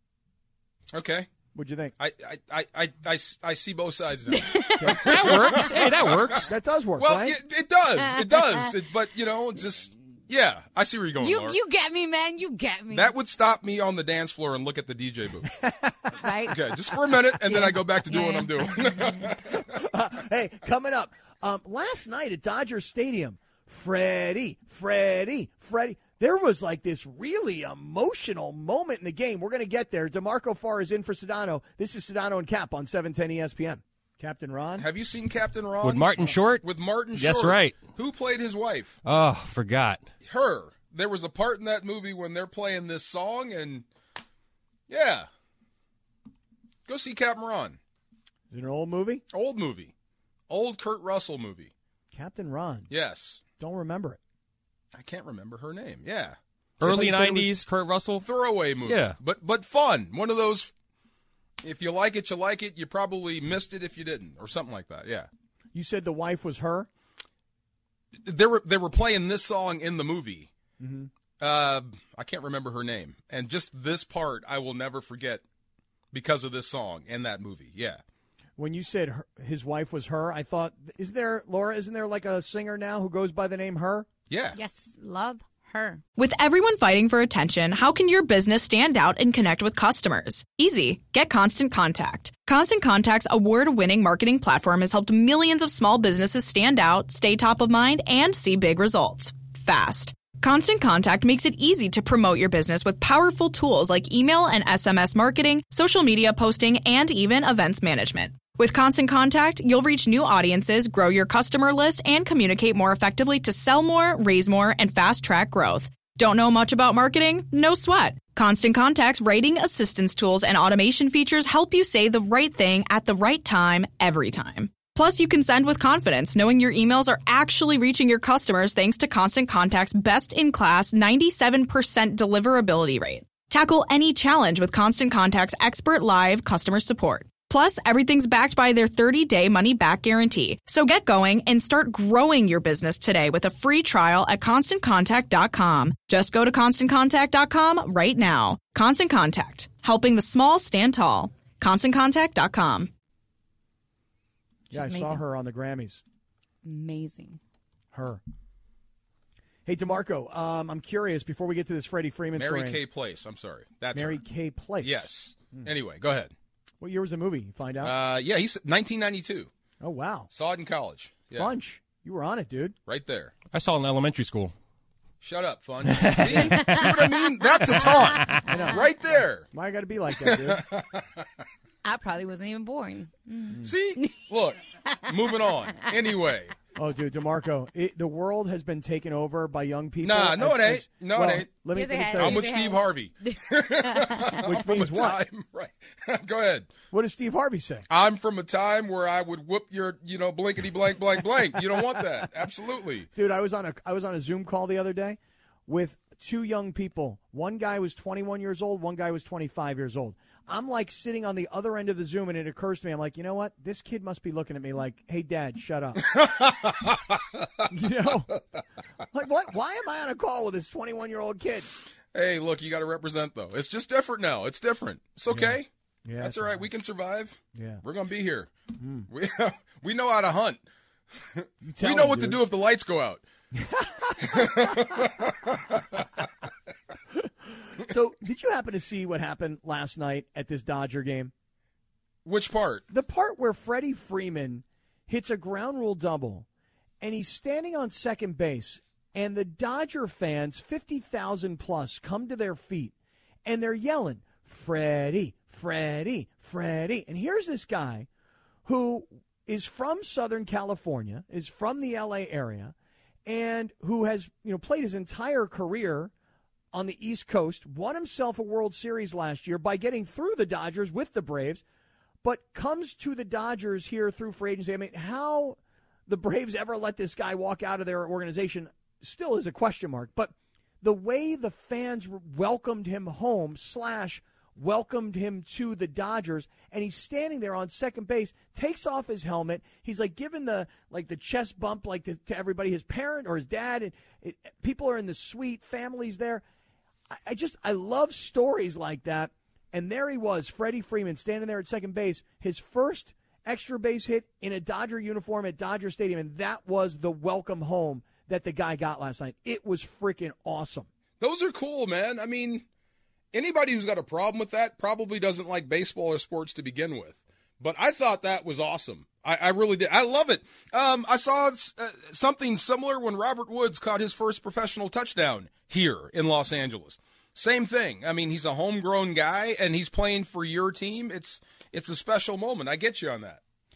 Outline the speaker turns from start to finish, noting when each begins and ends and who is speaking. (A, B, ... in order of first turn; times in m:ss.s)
0:00.9-0:01.3 A
0:01.5-0:01.9 B
0:02.0-0:11.6 A
0:04.3-0:05.8 C
0:04.8-0:05.6 B
0:05.0-0:06.5 D
0:06.4-0:07.4 B
0:08.0-0:08.7 C
0:11.2-0:13.2 C
0:12.9-0:15.5 A
0:15.6-0:15.9 B
0:16.1-0:19.3 C
0:16.5-0:19.6 A
0:19.6-0:34.9 B
0:34.8-0:39.0 A
0:35.8-0:37.9 D
0:39.0-0:40.1 D
0:40.2-0:43.9 A
0:44.9-0:45.3 A
0:46.9-0:47.8 A
0:48.5-0:49.2 B
0:49.3-0:49.9 A
0:50.5-0:51.7 A
0:52.1-0:52.9 B
0:52.9-0:53.4 A
0:53.6-0:54.2 B
0:54.9-0:56.4 A
0:56.8-0:58.3 D
0:56.8-0:57.6 B
0:58.2-1:00.7 A
0:58.8-0:59.2 D
1:01.6-1:05.3 A
1:05.7-1:06.9 B
1:08.2-1:10.5 A
1:10.8-1:11.1 B
1:11.4-1:15.4 A
1:16.1-1:18.0 A
1:18.6-1:24.1 B
1:24.3-1:24.6 A
1:24.6-1:26.0 C
1:26.2-2:32.9 E
2:34.7-2:35.2 C
2:34.7-2:36.0 B
2:36.6-2:37.4 C
2:37.9-2:38.2 B
2:39.7-2:42.8 B
2:42.4-2:44.2 A
2:43.9-2:45.7 B
2:44.8-2:46.3 A
2:46.8-2:47.9 B
2:47.8-2:49.5 A
2:49.8-2:50.3 B
2:50.3-2:51.5 A
2:51.3-2:52.8 B
2:52.9-2:53.3 A
2:53.5-2:54.5 D
2:55.2-2:59.5 A
2:55.9-2:57.0 D
2:56.2-2:56.5 B
2:57.7-2:58.5 D
2:58.4-3:00.6 B
3:00.2-3:01.2 A
3:01.8-3:04.3 C
3:03.6-3:06.5 A
3:04.9-3:05.5 C
3:06.8-3:12.5 B
3:10.0-3:11.6 A
3:11.7-3:14.6 C
3:12.1-3:16.7 A
3:14.4-3:15.2 B
3:16.9-3:17.8 B
3:17.9-3:23.1 A
3:23.2-3:36.1 B
3:36.0-3:37.5 A
3:37.7-3:38.3 B
3:39.1-3:41.7 B
3:42.1-3:45.7 A
3:45.3-3:46.7 B
3:46.2-3:48.5 A
3:47.6-3:47.8 B
3:48.8-3:49.1 B
3:49.1-3:50.6 A
3:51.3-3:53.2 A
3:51.6-3:52.4 B
3:53.6-3:54.7 B
3:54.2-3:56.0 A
3:57.8-4:01.3 B
4:02.2-4:02.9 A
4:02.9-4:06.5 B
4:07.0-4:12.9 B
4:13.4-4:18.1 B
4:18.6-4:26.1 B
4:26.7-4:31.6 B
4:32.2-4:56.4 B
4:57.1-5:10.9 B
5:11.2-5:12.6 A
5:13.3-5:33.4 A